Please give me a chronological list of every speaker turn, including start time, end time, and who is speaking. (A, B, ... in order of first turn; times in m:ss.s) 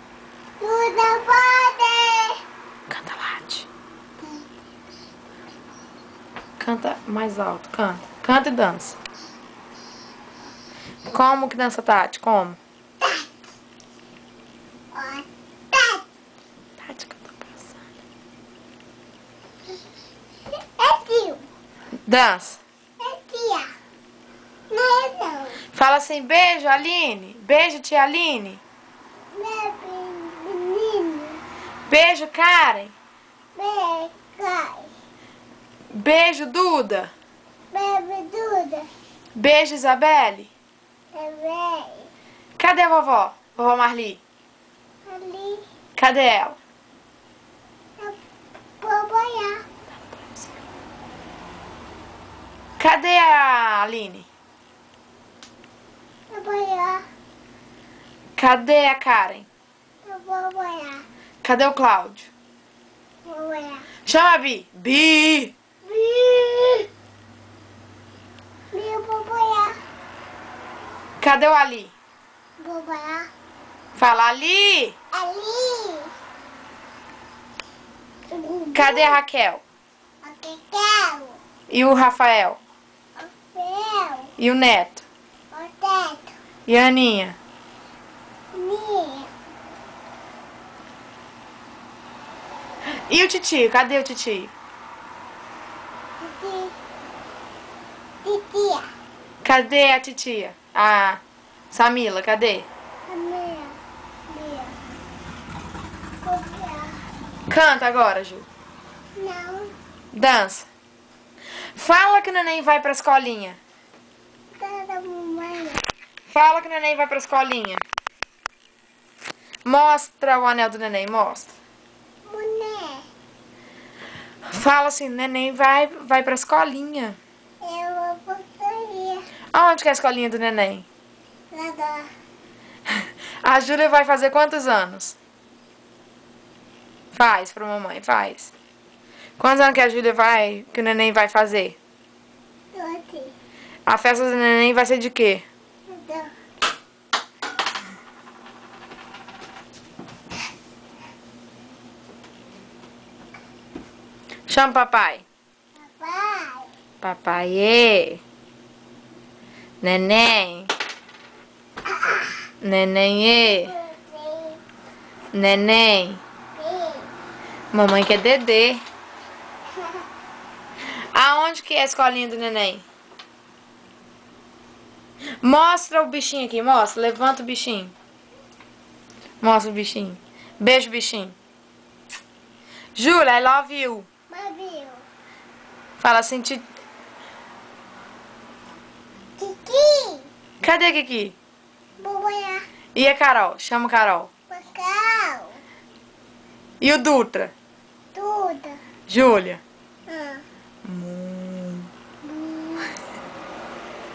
0:00.6-0:02.4 A
0:02.9-0:03.7 B
0:06.6-0:09.0 B
0:11.1-0:12.6 B
0:13.0-0:13.3 A
0:14.9-0:16.0 A
0:16.8-0:17.8 B
0:20.8-0:21.4 A
0:22.0-0:22.6 B
0:23.0-0:23.7 A
0:24.7-0:25.6 A
0:25.7-0:28.6 B
0:29.3-0:31.4 A
0:31.9-0:32.9 B
0:33.5-0:34.9 A
0:35.9-0:37.1 B
0:37.7-0:38.9 A
0:39.4-0:40.5 B
0:41.1-0:42.1 A
0:42.6-0:44.2 B
0:45.0-0:45.6 A
0:46.0-0:46.6 B
0:48.8-0:49.6 A
0:52.8-0:54.3 B
0:56.3-0:57.0 A
0:58.4-0:59.5 B
1:00.0-1:01.0 A
1:01.4-1:02.3 B
1:03.2-1:03.9 A
1:04.0-1:05.5 B
1:05.8-1:06.9 A
1:08.7-1:09.7 A
1:11.2-1:11.9 B
1:12.6-1:13.3 A
1:13.9-1:15.0 B
1:15.1-1:16.1 A
1:18.3-1:19.2 A
1:18.7-1:19.6 B
1:20.2-1:21.4 A
1:21.7-1:22.6 B
1:23.2-1:24.3 A
1:24.4-1:25.0 B
1:25.5-1:26.3 A
1:26.7-1:27.4 B
1:28.5-1:29.3 A
1:32.8-1:34.5 B
1:36.2-1:36.7 A
1:38.2-1:38.9 A
1:39.4-1:42.7 B
1:43.1-1:43.8 A
1:44.3-1:44.8 A
1:46.2-1:47.0 A
1:47.5-1:48.4 B
1:49.2-1:49.7 A
1:50.1-1:50.7 B
1:51.6-1:53.6 B
1:54.6-1:55.8 A
1:56.3-1:57.8 B
1:59.6-2:01.5 B
2:02.3-2:03.1 A
2:04.4-2:07.2 B
2:07.6-2:09.3 A
2:09.5-2:10.8 B
2:11.5-2:12.1 A
2:13.4-2:15.2 B
2:17.1-2:18.5 B
2:19.4-2:21.8 B
2:22.7-2:23.3 A
2:23.9-2:25.4 B
2:25.9-2:26.3 A
2:34.5-2:35.2 B
2:35.8-2:36.7 A
2:37.0-2:38.2 B
2:39.8-2:40.7 B
2:41.9-2:42.4 A
2:42.6-2:43.7 B
2:43.3-2:44.6 A
2:45.3-2:46.2 B
2:46.5-2:47.1 A
2:47.7-2:48.8 B
2:51.1-2:52.8 B
2:55.4-2:57.9 B
2:59.4-3:01.3 B
3:03.0-3:04.1 B
3:04.3-3:05.0 A
3:06.0-3:06.6 B
3:09.4-3:10.3 A
3:10.6-3:11.4 B
3:12.0-3:12.6 A
3:12.9-3:14.3 B
3:14.5-3:15.6 A
3:16.8-3:17.5 B
3:18.1-3:18.8 A
3:19.1-3:19.6 B
3:20.1-3:20.4 A
3:20.8-3:21.9 B
3:22.2-3:23.0 A